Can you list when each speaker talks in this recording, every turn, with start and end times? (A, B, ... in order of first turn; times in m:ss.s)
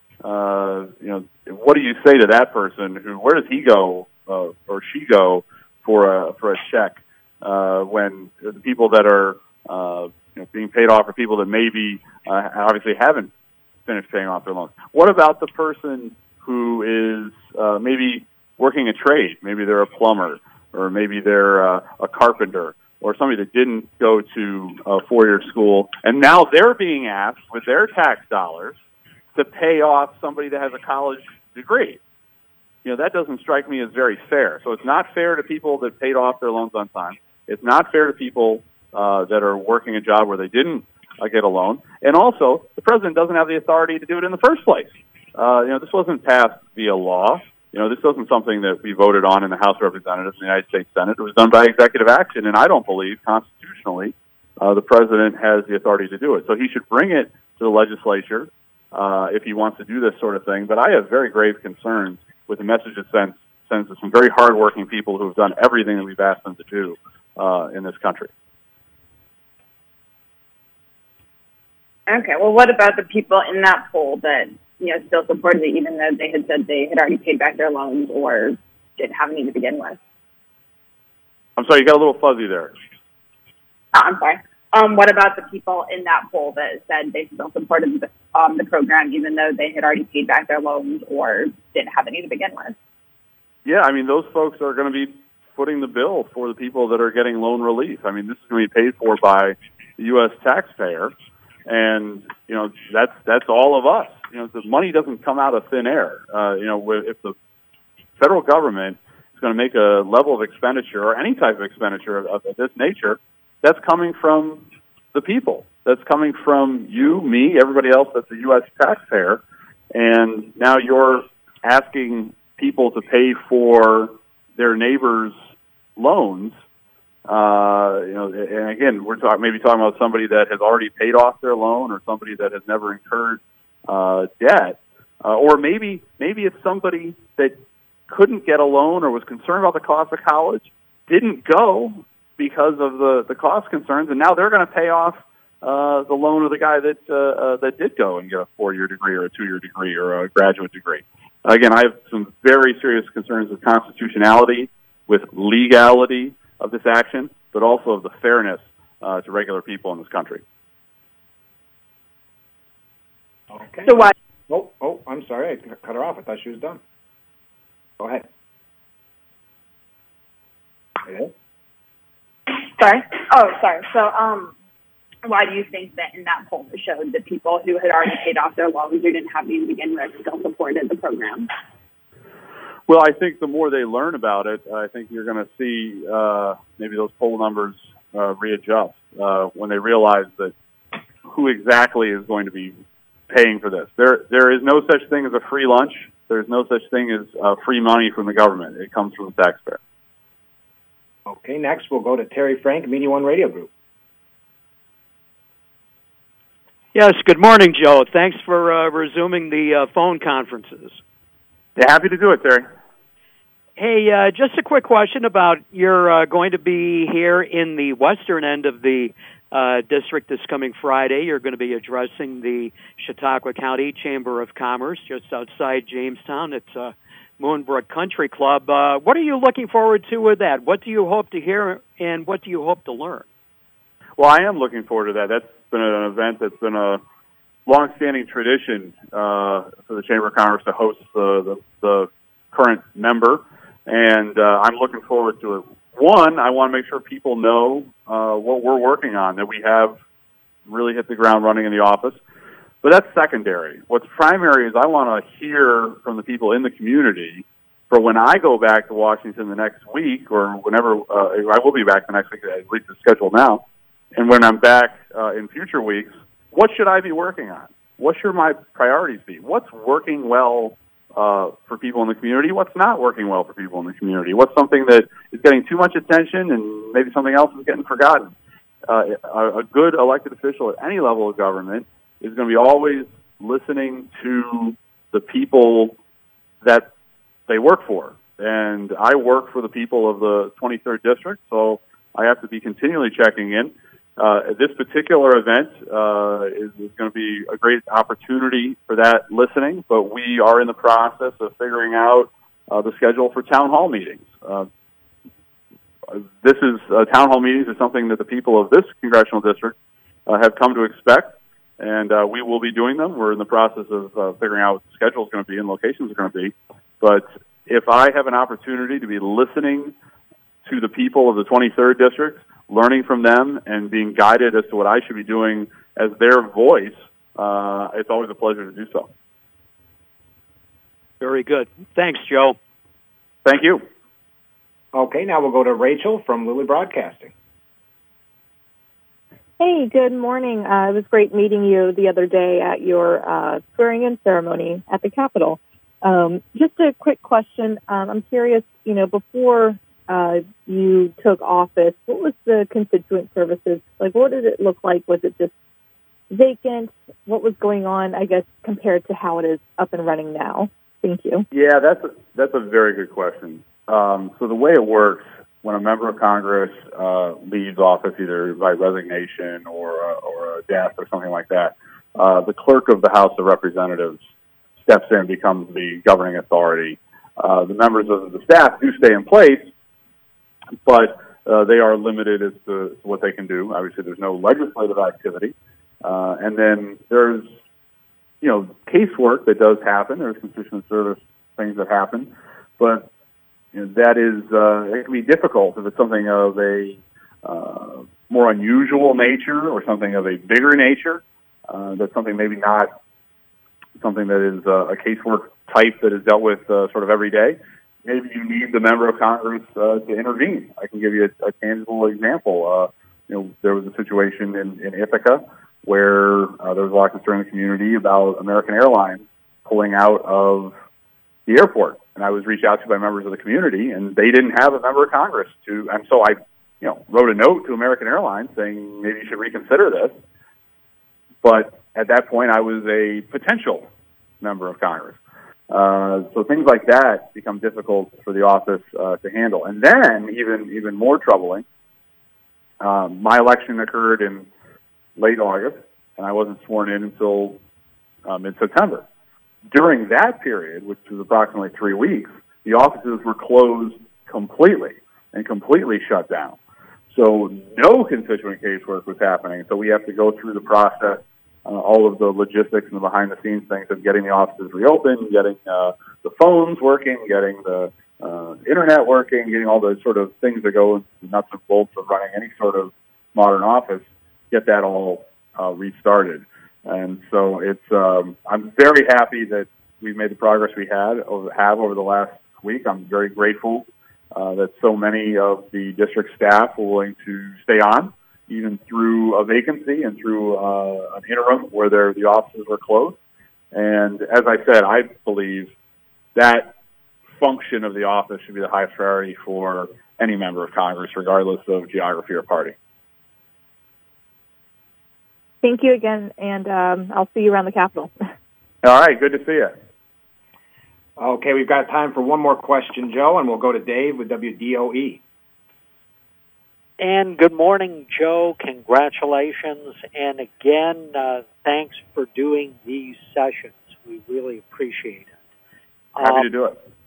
0:00.2-0:13.3 A
0:13.9-0:28.8 A
0:29.4-0:32.0 A
0:32.8-1:08.3 A
1:12.1-1:20.0 B
1:21.6-1:22.7 A
1:23.9-1:32.8 B
1:33.6-1:41.1 A
1:41.6-1:47.4 A
1:48.2-1:59.4 A
1:59.9-2:05.4 A
2:06.0-2:06.5 A
2:07.3-2:17.6 A
2:18.1-2:40.4 A
2:43.5-2:46.8 C
2:43.8-2:44.1 B
2:48.0-2:48.2 C
2:51.0-2:51.3 C
2:52.5-2:54.5 B
2:55.2-3:01.5 B
3:02.9-3:10.5 A
3:11.3-3:12.8 A
3:13.3-3:19.8 A
3:21.3-3:23.7 C
3:26.9-3:31.0 D
3:31.8-3:32.6 A
3:33.8-3:53.2 D
3:54.2-3:57.0 A
3:57.7-4:10.0 A
4:10.7-4:12.2 A
4:12.8-4:23.6 A
4:24.1-4:38.3 A
4:38.9-4:46.0 A
4:46.6-4:46.9 A
4:47.5-5:04.7 A
5:06.1-5:09.8 A
5:10.3-5:19.9 A
5:20.6-5:29.1 A
5:31.2-5:32.6 D
5:33.4-5:33.8 A
5:34.9-5:37.3 C
5:39.6-5:55.5 E
5:56.3-6:01.4 E
6:01.5-6:14.2 A
6:14.8-6:19.7 A
6:20.8-6:27.5 A
6:28.4-6:33.1 A
6:33.7-6:42.9 A
6:44.0-7:00.7 A
7:01.5-7:10.1 A
7:11.4-7:13.9 A
7:14.4-7:15.2 A
7:15.7-7:21.6 A
7:22.8-7:24.5 A
7:25.2-7:27.6 A
7:28.2-7:29.0 A
7:29.7-7:36.6 A
7:37.1-8:13.2 A
8:13.7-8:15.7 A
8:16.4-8:16.7 A
8:17.4-8:22.7 A
8:25.6-8:28.1 E
8:28.8-8:29.7 A
8:31.2-8:35.2 C
8:37.0-8:45.3 F
8:46.2-8:46.5 F
8:46.2-8:46.8 A